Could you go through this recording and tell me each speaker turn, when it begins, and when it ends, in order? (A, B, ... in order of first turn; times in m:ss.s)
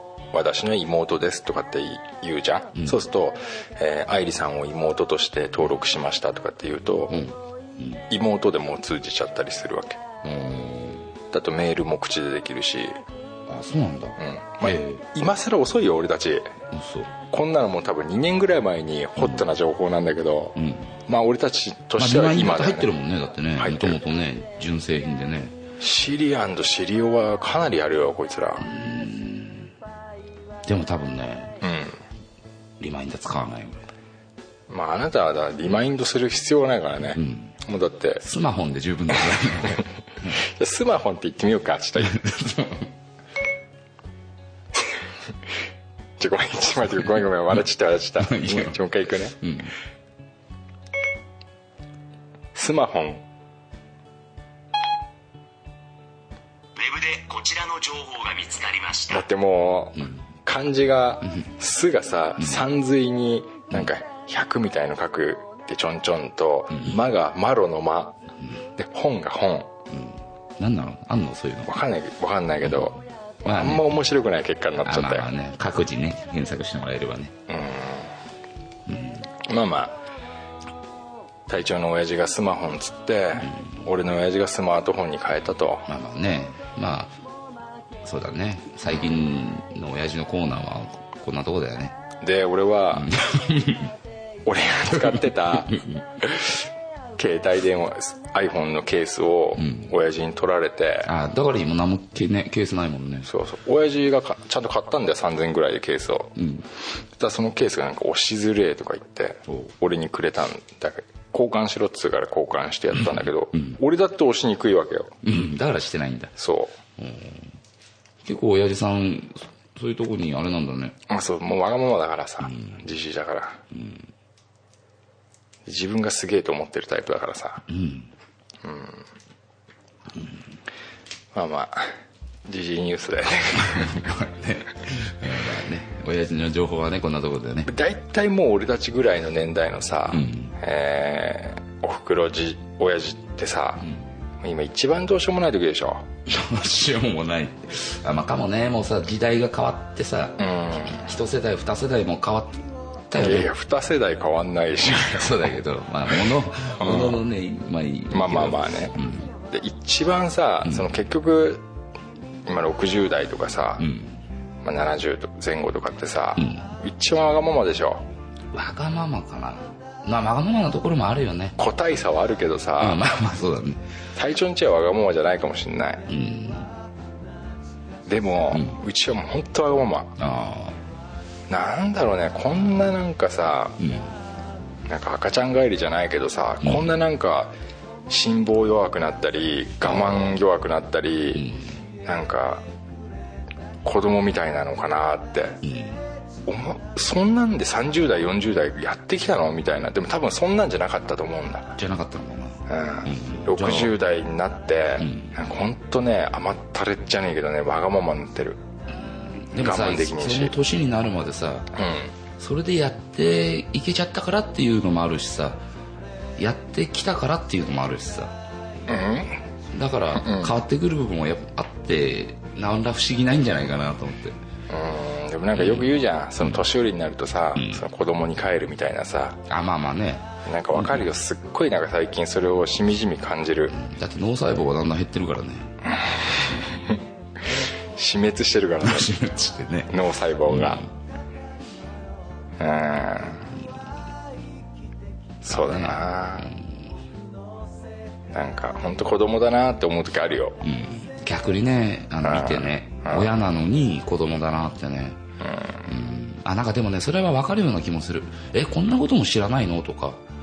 0:00.3-0:07.2 A
0:07.1-0:08.0 B
0:08.1-0:10.0 A
0:10.2-0:11.1 B
0:11.3-0:13.0 A
0:13.5-0:15.0 B
0:14.2-0:16.5 A
0:16.7-0:17.1 B
0:17.3-0:22.9 A
0:20.6-0:21.0 B
0:22.0-0:25.6 B
0:23.6-0:24.0 A
0:25.8-0:28.7 A
0:28.6-0:29.7 B
0:30.6-0:31.6 B
0:31.6-0:32.0 A
0:32.8-0:33.9 B
0:34.7-0:38.2 A
0:37.2-0:37.5 B
0:38.2-0:40.4 B
0:40.3-0:42.2 A
0:42.0-0:42.9 B
0:46.2-0:49.4 A
0:48.2-0:48.8 B
0:49.3-0:49.7 B
0:52.6-0:53.2 A
0:56.8-0:59.2 C
0:59.1-1:08.2 A
1:08.8-1:09.7 A
1:09.9-1:11.7 B
1:11.7-1:15.3 A
1:13.4-1:14.0 B
1:14.8-1:17.3 B
1:17.5-1:18.1 A
1:18.9-1:19.3 B
1:19.4-1:20.0 A
1:21.5-1:25.9 A
1:25.9-1:27.2 B
1:28.0-1:32.0 B
1:32.2-1:33.1 A
1:32.9-1:33.9 B
1:34.4-1:36.6 A
1:35.7-1:36.0 B
1:37.2-1:41.1 A
1:39.6-1:39.9 B
1:41.1-1:43.3 B
1:43.3-1:46.4 A
1:46.4-1:46.6 B
1:47.2-1:55.2 A
1:55.2-1:56.4 B
1:56.4-1:56.8 A
1:57.0-1:57.5 B
1:58.2-2:01.0 B
2:01.1-2:03.6 A
2:03.7-2:04.0 B
2:05.7-2:07.6 A
2:07.7-2:08.1 B
2:08.6-2:09.0 A
2:11.3-2:14.0 A
2:13.6-2:17.7 B
2:17.7-2:23.9 A
2:20.1-2:20.5 B
2:24.4-2:26.1 A
2:26.3-2:33.5 B
2:30.4-2:31.0 A
2:33.2-2:35.5 A
2:34.8-2:39.3 B
2:36.8-2:37.2 A
2:38.1-2:39.0 A
2:39.5-2:41.6 A
2:42.5-2:43.9 A
2:43.8-2:44.2 B
2:44.6-2:48.0 A
2:46.4-2:46.7 B
2:48.5-2:51.6 B
2:51.6-2:53.0 A
2:52.8-2:53.8 B
2:54.2-2:56.0 A
2:56.1-2:56.7 B
2:58.1-3:00.2 A
3:00.2-3:00.8 B
3:01.5-3:03.8 A
3:03.8-3:04.1 B
3:04.9-3:07.5 A
3:08.1-3:11.5 A
3:09.8-3:10.4 B
3:11.4-3:11.6 B
3:12.0-3:12.6 A
3:13.8-3:15.6 A
3:15.6-3:16.0 B
3:16.5-3:21.8 A
3:21.8-3:24.0 B
3:22.7-3:28.6 A
3:25.0-3:25.4 B
3:28.9-3:31.7 B
3:29.6-3:30.6 A
3:31.8-3:32.1 A
3:32.4-3:35.6 B
3:36.4-3:38.4 B
3:38.9-3:39.4 A
3:39.7-3:44.4 B
3:40.2-3:40.6 A
3:44.7-3:49.4 A
3:45.6-3:46.6 B
3:47.6-3:47.8 B
3:49.5-3:51.1 B
3:50.4-3:53.8 A
3:53.7-3:55.7 B
3:55.8-3:57.0 A
3:58.0-3:59.1 A
3:58.8-3:59.9 B
3:59.9-4:00.8 A
4:00.5-4:00.9 B
4:02.6-4:03.5 A
4:05.4-4:06.9 B
4:05.4-4:06.5 A
4:08.3-4:10.6 A
4:10.6-4:15.2 B
4:12.2-4:13.3 A
4:15.4-4:15.9 A
4:15.9-4:20.2 B